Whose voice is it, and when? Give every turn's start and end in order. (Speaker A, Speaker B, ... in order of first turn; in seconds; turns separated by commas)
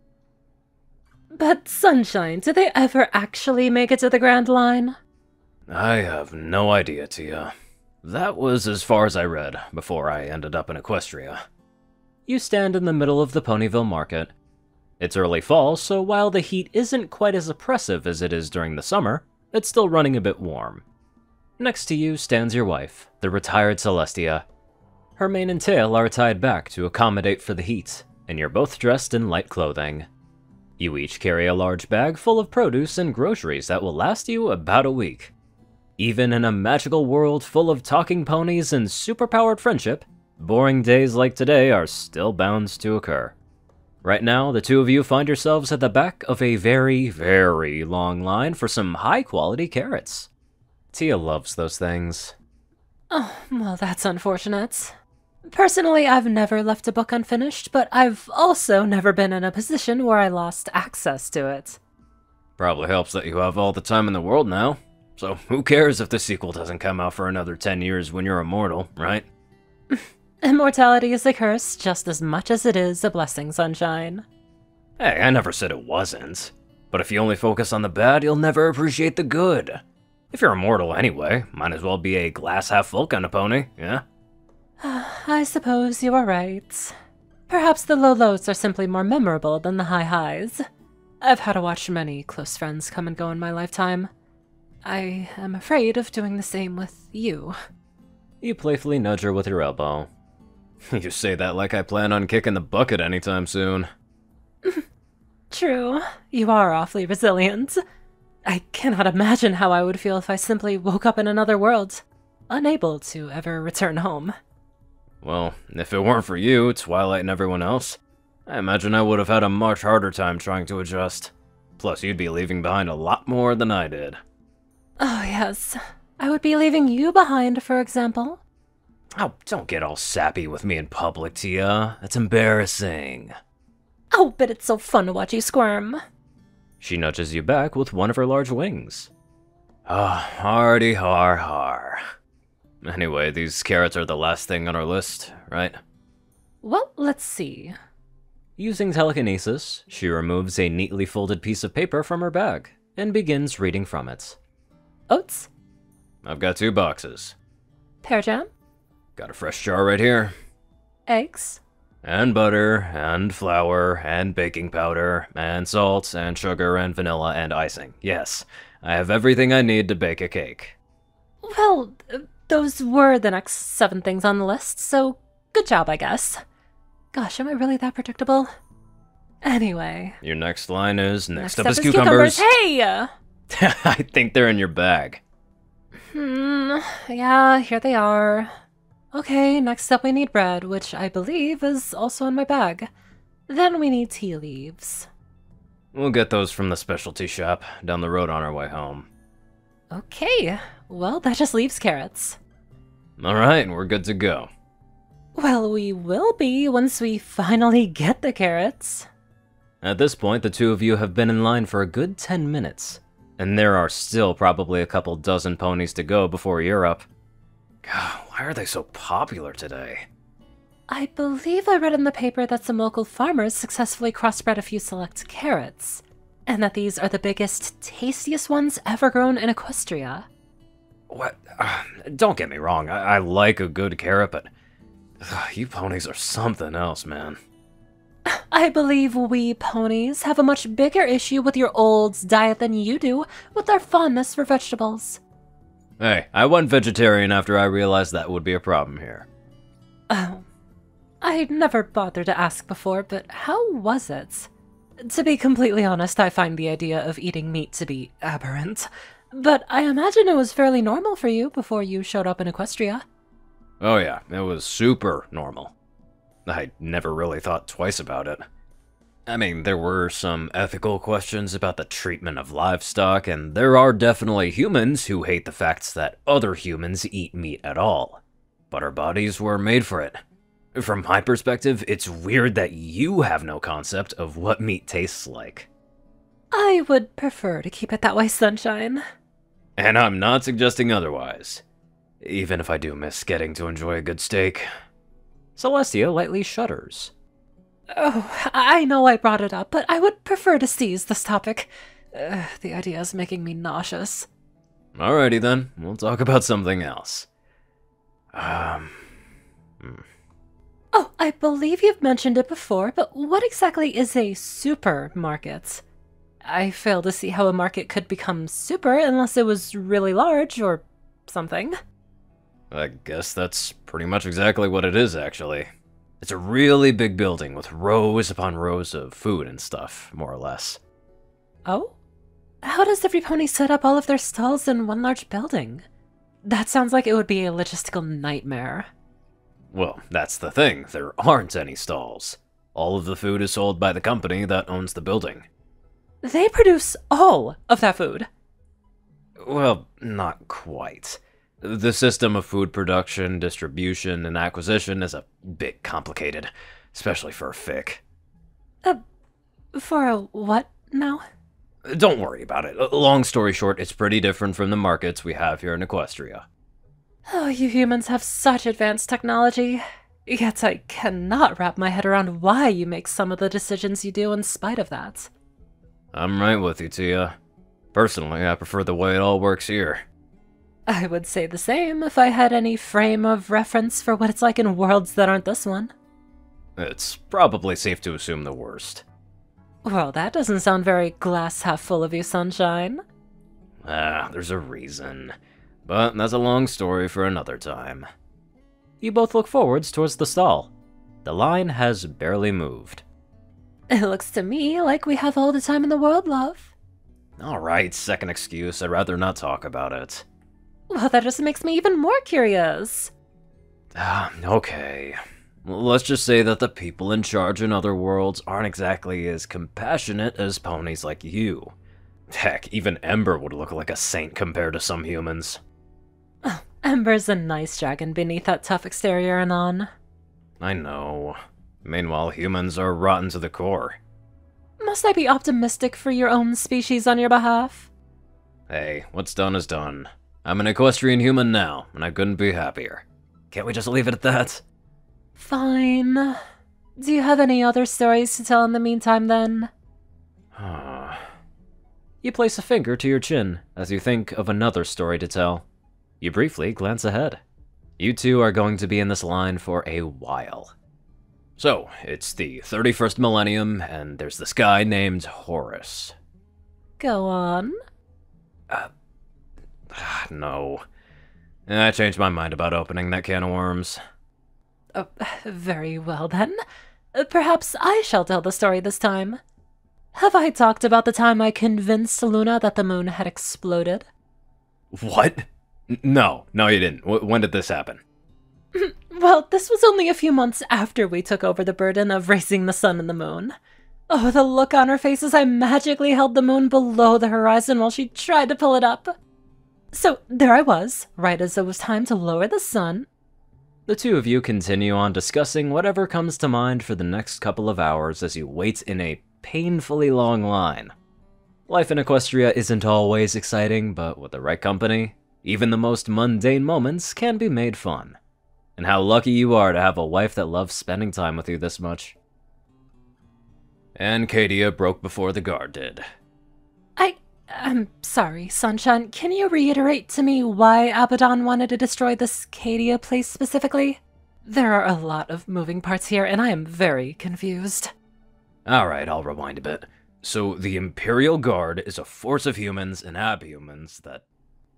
Speaker A: 1.3-5.0, Speaker B: 5.7-7.5, Speaker B: 8.0-11.4, Speaker B: 12.3-14.3, Speaker B: 15.0-20.8, Speaker B: 21.6-24.4, Speaker B: 25.2-30.1, Speaker B: 30.8-35.3, Speaker B: 36.0-43.4, Speaker B: 44.0-50.3, Speaker B: 50.9-52.4, Speaker A: 53.1-54.9, Speaker A: 55.5-61.8, Speaker B: 62.6-69.2, Speaker A: 69.9-74.2, Speaker B: 75.0-84.0, Speaker A: 84.8-86.9, Speaker A: 87.5-90.6, Speaker A: 91.2-94.1, Speaker A: 94.8-97.5, Speaker B: 98.4-100.1, Speaker B: 100.9-103.9, Speaker A: 105.5-107.8, Speaker A: 108.5-114.3, Speaker B: 115.2-124.2, Speaker A: 125.0-128.4, Speaker B: 129.2-133.3, Speaker A: 134.1-136.0, Speaker B: 136.8-139.1, Speaker B: 139.9-142.0, Speaker B: 142.8-145.8, Speaker A: 146.6-147.7, Speaker B: 148.6-154.4, Speaker A: 155.1-155.5, Speaker B: 156.2-157.4, Speaker A: 158.0-158.5, Speaker B: 159.2-160.3, Speaker A: 161.1-161.6, Speaker B: 162.0-170.8, Speaker A: 171.4-176.4, Speaker A: 177.1-178.5, Speaker A: 179.4-180.2, Speaker B: 180.2-182.5, Speaker A: 181.4-183.1, Speaker B: 183.5-185.2, Speaker A: 186.1-188.5, Speaker A: 189.1-192.9, Speaker A: 193.5-195.1, Speaker B: 195.9-199.1, Speaker A: 199.9-202.4, Speaker B: 203.2-204.5, Speaker A: 205.4-209.1, Speaker B: 209.8-217.1, Speaker B: 217.8-220.1, Speaker A: 220.9-230.3, Speaker B: 231.1-234.5, Speaker B: 235.2-237.4, Speaker A: 238.3-245.2, Speaker B: 246.0-249.3, Speaker A: 250.1-250.4, Speaker A: 251.2-254.5, Speaker A: 255.0-263.0, Speaker B: 263.8-265.7, Speaker B: 266.4-268.4, Speaker B: 269.3-280.2, Speaker B: 280.7-285.7, Speaker A: 286.5-289.0, Speaker B: 289.8-291.6, Speaker B: 292.2-294.7, Speaker B: 295.6-297.1, Speaker A: 297.9-304.3, Speaker B: 304.9-307.3, Speaker B: 308.3-309.1, Speaker A: 310.9-315.8, Speaker A: 316.4-321.8, Speaker B: 322.7-325.7, Speaker B: 326.2-330.8, Speaker A: 331.6-331.9, Speaker A: 332.6-335.8, Speaker A: 336.4-338.9, Speaker B: 339.7-345.5, Speaker A: 346.2-348.3, Speaker B: 349.4-358.0, Speaker A: 359.7-361.2, Speaker B: 361.8-366.4, Speaker A: 367.3-375.3, Speaker B: 376.1-377.3, Speaker B: 377.9-380.0, Speaker A: 380.9-385.9, Speaker B: 386.8-389.0, Speaker A: 389.8-393.0, Speaker B: 393.8-395.3, Speaker B: 395.9-398.1, Speaker B: 399.0-400.7, Speaker B: 401.2-403.0, Speaker A: 403.9-406.7, Speaker B: 407.4-410.2, Speaker A: 410.9-413.1, Speaker B: 413.9-421.8, Speaker B: 422.3-425.6, Speaker A: 426.4-429.9, Speaker B: 430.6-434.0, Speaker A: 434.8-437.9, Speaker B: 438.7-444.6, Speaker A: 445.4-446.4, Speaker A: 447.0-449.7, Speaker B: 450.5-451.2, Speaker B: 452.2-455.6, Speaker B: 456.2-457.4, Speaker B: 458.0-460.7, Speaker B: 461.6-466.1, Speaker A: 467.0-467.7, Speaker B: 469.9-470.8, Speaker B: 471.7-474.0, Speaker A: 474.9-476.6, Speaker A: 477.1-479.4, Speaker A: 480.1-484.1, Speaker B: 484.9-488.0, Speaker A: 488.7-493.5, Speaker A: 494.1-499.1, Speaker A: 499.9-503.1, Speaker B: 503.9-510.9, Speaker B: 511.7-518.2, Speaker B: 518.8-522.2, Speaker B: 524.0-526.0, Speaker A: 527.0-537.9, Speaker B: 538.6-544.2